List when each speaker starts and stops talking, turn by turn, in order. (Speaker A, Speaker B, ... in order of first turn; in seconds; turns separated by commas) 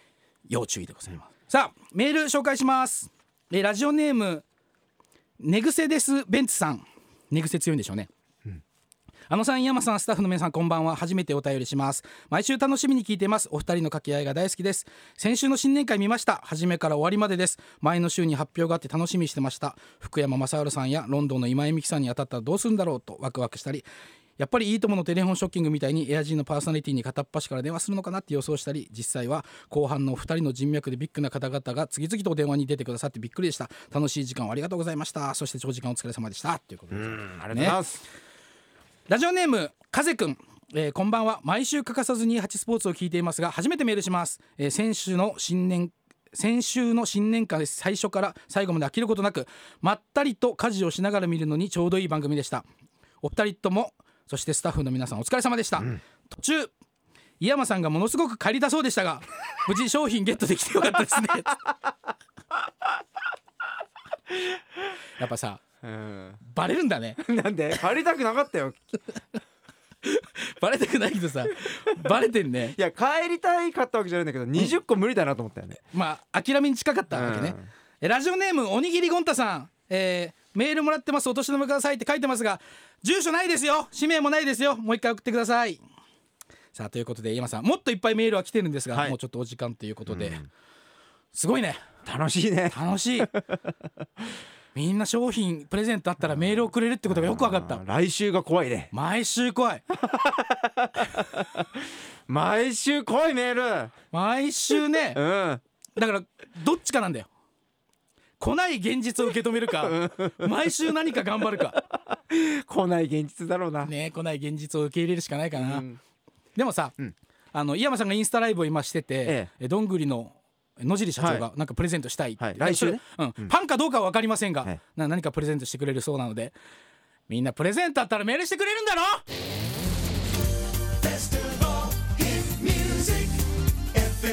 Speaker A: 0.5-4.4, Speaker A: 5.4-8.1, Speaker A: 9.3-23.9, Speaker A: 24.4-37.8, Speaker B: 36.9-38.0, Speaker A: 39.1-52.6, Speaker A: 53.2-56.7, Speaker A: 57.4-61.6, Speaker A: 65.2-65.6, Speaker B: 65.8-66.4, Speaker A: 66.4-67.2, Speaker B: 67.2-68.8, Speaker A: 70.0-72.8, Speaker B: 72.7-75.8, Speaker A: 75.9-85.8, Speaker B: 77.1-77.7, Speaker A: 86.7-90.4, Speaker B: 88.9-89.2, Speaker B: 90.1-90.5, Speaker A: 91.3-91.8, Speaker B: 92.0-93.4, Speaker A: 92.7-93.3, Speaker A: 94.7-97.8, Speaker B: 96.3-98.9, Speaker A: 98.9-99.8, Speaker B: 99.9-101.7, Speaker B: 102.3-103.9, Speaker A: 104.1-105.2, Speaker B: 105.0-105.6, Speaker A: 106.0-107.3, Speaker A: 108.4-111.8, Speaker B: 109.8-110.7, Speaker B: 112.1-113.9, Speaker A: 113.8-115.8, Speaker B: 115.5-116.0, Speaker A: 116.5-117.0, Speaker A: 117.5-126.5, Speaker B: 121.2-121.5, Speaker B: 122.4-123.5, Speaker A: 127.3-129.2, Speaker B: 132.5-133.2